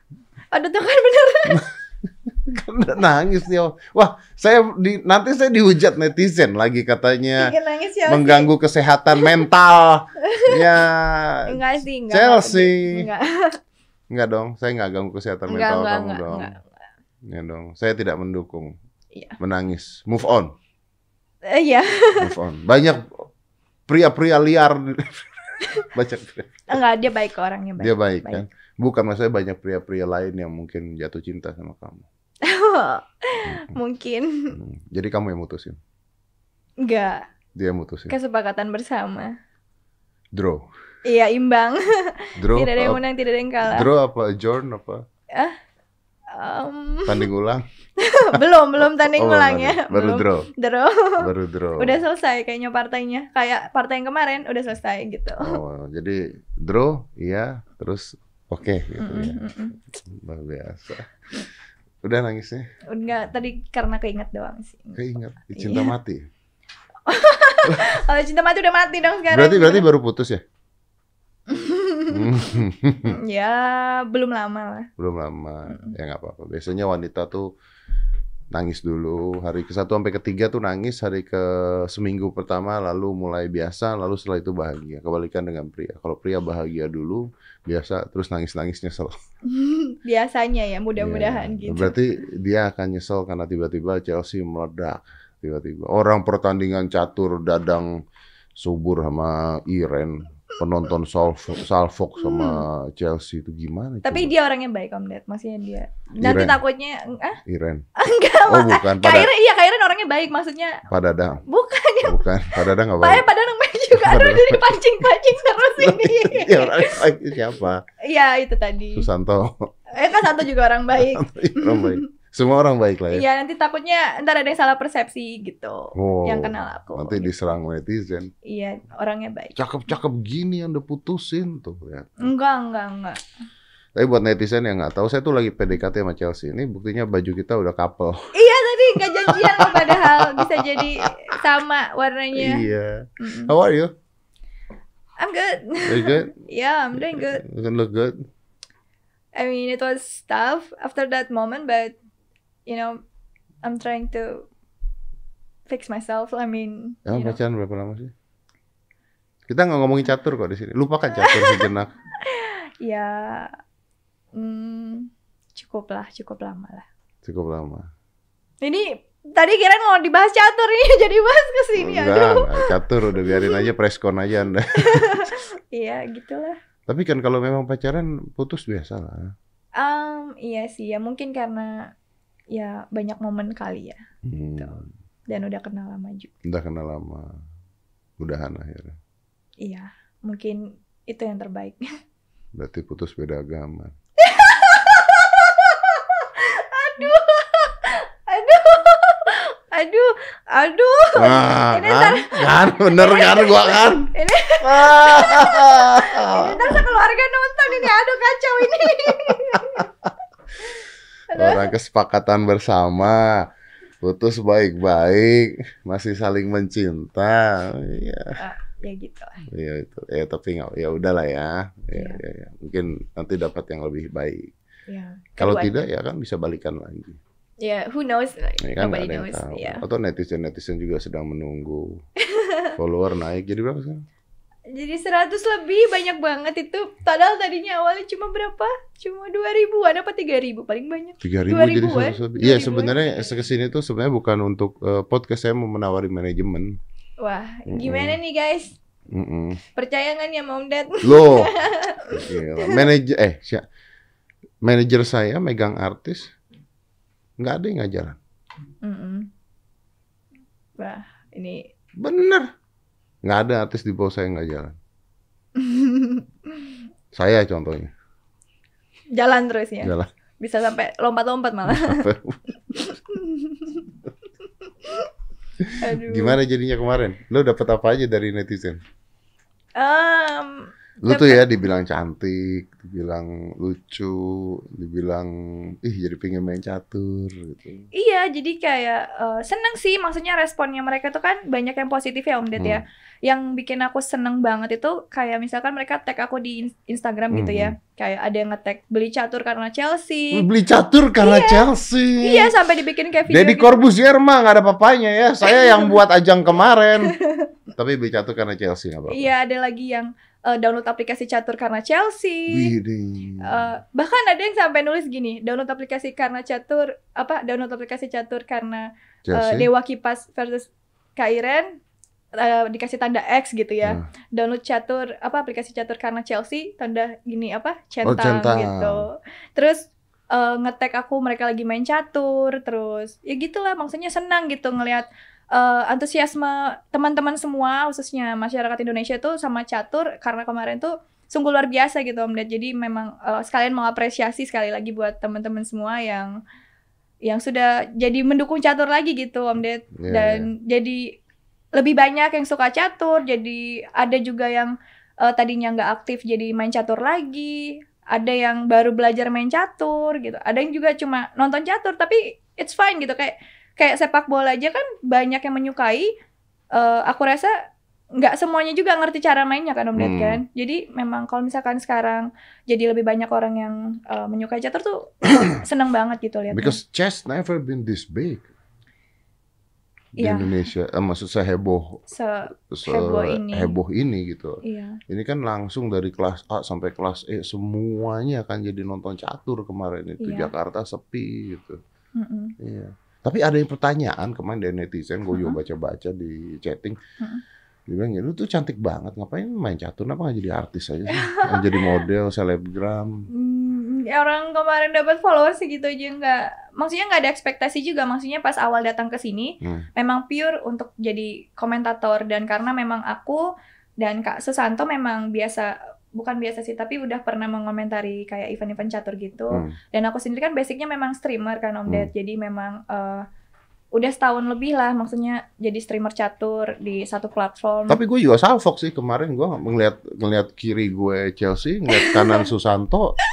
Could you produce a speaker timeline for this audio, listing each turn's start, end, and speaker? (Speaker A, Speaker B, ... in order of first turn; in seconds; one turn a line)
Speaker A: 0.5-1.6
Speaker B: 2.3-13.1
Speaker A: 7.4-8.5
Speaker A: 10.2-10.6
Speaker A: 11.4-13.6
Speaker B: 14.1-16.5
Speaker A: 15.5-16.6
Speaker B: 17.2-18.8
Speaker B: 19.4-20.5
Speaker A: 21.4-22.3
Speaker B: 22.2-23.3
Speaker B: 23.9-26.7
Speaker A: 26.7-28.4
Speaker B: 27.8-32.0
Speaker A: 32.4-34.6
Speaker B: 33.4-33.7
Speaker B: 34.5-35.8
Speaker A: 36.8-37.2
Speaker B: 37.6-38.1
Speaker A: 38.1-39.4
Speaker B: 40.3-40.7
Speaker A: 41.0-43.9
Speaker B: 42.4-43.0
Speaker B: 43.6-45.0
Speaker A: 46.3-47.3
Speaker B: 47.1-47.6
Speaker A: 48.0-55.6
Speaker B: 48.3-50.5
Speaker B: 51.2-52.0
Speaker B: 55.4-59.4
Speaker A: 59.0-59.8
Speaker B: 60.0-61.1
Speaker B: 62.0-62.7
Speaker A: 62.9-65.9
Speaker B: 65.0-66.3
Speaker A: 67.1-69.9
Speaker B: 69.3-70.4
Speaker A: 71.5-74.9
Speaker B: 72.1-73.2
Speaker B: 75.0-77.5
Speaker A: 75.7-75.9
Speaker B: 78.5-89.1
Speaker A: 89.5-92.0
Speaker B: 91.0-98.0
Speaker B: 98.6-104.3
Speaker A: 102.2-102.6
Speaker A: 104.0-107.4
Speaker B: 106.2-106.6
Speaker B: 107.5-107.8
Speaker A: 108.0-110.8
Speaker B: 108.5-109.3
Speaker B: 110.9-111.4
Speaker A: 111.4-112.2
Speaker B: 112.0-113.3
Speaker A: 113.0-117.1
Speaker B: 113.9-114.8
Speaker B: 115.8-117.8
Speaker A: 118.0-119.1
Speaker B: 118.9-119.7
Speaker A: 119.9-122.0
Speaker B: 120.9-123.2
Speaker A: 123.1-127.3
Speaker B: 125.9-128.3
Speaker A: 128.4-129.6
Speaker B: 129.6-132.3
Speaker A: 132.2-133.2
Speaker B: 133.9-138.3
Speaker A: 138.3-142.7
Speaker B: 139.2-141.1
Speaker B: 142.3-143.9
Speaker A: 143.2-143.5
Speaker A: 145.2-147.4
Speaker B: 145.8-146.3
Speaker B: 146.9-148.2
Speaker A: 149.3-151.9
Speaker A: 152.7-153.0
Speaker A: 153.6-154.5
Speaker A: 155.7-157.4
Speaker B: 157.1-158.1
Speaker B: 159.5-161.9
Speaker A: 161.1-161.7
Speaker A: 162.2-163.6
Speaker A: 164.3-166.8
Speaker B: 167.2-167.9
Speaker A: 168.6-173.6
Speaker B: 171.8-175.3
Speaker A: 174.8-176.6
Speaker B: 176.9-179.3
Speaker A: 179.8-181.9
Speaker A: 182.5-184.0
Speaker B: 184.2-184.9
Speaker A: 185.3-186.3
Speaker B: 186.4-187.3
Speaker B: 188.2-188.9
Speaker A: 189.6-191.8
Speaker B: 192.6-193.9
Speaker A: 194.2-209.9
Speaker B: 201.2-206.8
Speaker B: 208.8-209.8
Speaker A: 211.3-211.7
Speaker B: 211.3-213.5
Speaker B: 214.0-218.4
Speaker A: 218.4-219.4
Speaker B: 219.4-224.5
Speaker A: 221.9-222.2
Speaker A: 224.9-225.9
Speaker B: 225.4-227.2
Speaker A: 227.6-229.8
Speaker B: 228.6-232.0
Speaker A: 232.2-232.8
Speaker B: 232.8-234.1
Speaker A: 234.7-243.3
Speaker B: 241.2-246.8
Speaker A: 247.2-248.8
Speaker B: 247.7-248.2
Speaker B: 249.1-249.6
Speaker A: 249.7-252.8
Speaker B: 251.0-251.5
Speaker B: 252.1-253.6
Speaker B: 254.6-256.3
Speaker B: 257.4-258.2
Speaker A: 258.8-259.3
Speaker A: 260.8-261.7
Speaker B: 262.0-262.5
Speaker B: 263.2-264.8
Speaker A: 265.6-266.6
Speaker B: 267.1-267.9
Speaker A: 269.1-272.1
Speaker B: 269.8-270.1
Speaker B: 271.6-272.4
Speaker A: 272.7-273.8
Speaker B: 275.6-278.8
Speaker A: 275.8-276.4
Speaker A: 279.8-281.4
Speaker B: 281.0-287.9
Speaker A: 287.9-300.4
Speaker B: 292.6-292.8
Speaker B: 297.3-297.8
Speaker B: 300.3-302.5
Speaker A: 301.2-301.7
Speaker A: 302.2-303.8
Speaker B: 303.3-307.1
Speaker A: 305.4-305.9
Speaker A: 307.0-307.5
Speaker B: 307.8-309.3
Speaker A: 309.1-312.7
Speaker B: 312.5-313.6
Speaker A: 313.4-321.8
Speaker B: 319.2-319.7
Speaker A: 322.3-346.4
Speaker B: 328.0-329.1
Speaker A: 347.2-351.2
Speaker B: 349.9-350.5
Speaker A: 351.8-366.1
Speaker A: 366.7-367.5
Speaker A: 368.1-376.8
Speaker B: 369.9-370.4
Speaker B: 376.5-378.5
Speaker B: 380.2-382.0
Speaker A: 380.2-380.7
Speaker A: 382.1-383.8
Speaker B: 382.7-391.8
Speaker A: 384.6-385.0
Speaker A: 390.2-390.5
Speaker A: 392.2-392.6
Speaker B: 392.6-397.0
Speaker A: 395.3-395.6
Speaker B: 397.9-403.3
Speaker A: 401.1-401.8
Speaker A: 403.3-413.5
Speaker B: 409.6-409.9
Speaker A: 414.0-423.2
Speaker A: 423.9-428.0
Speaker B: 427.9-433.2
Speaker A: 432.0-432.3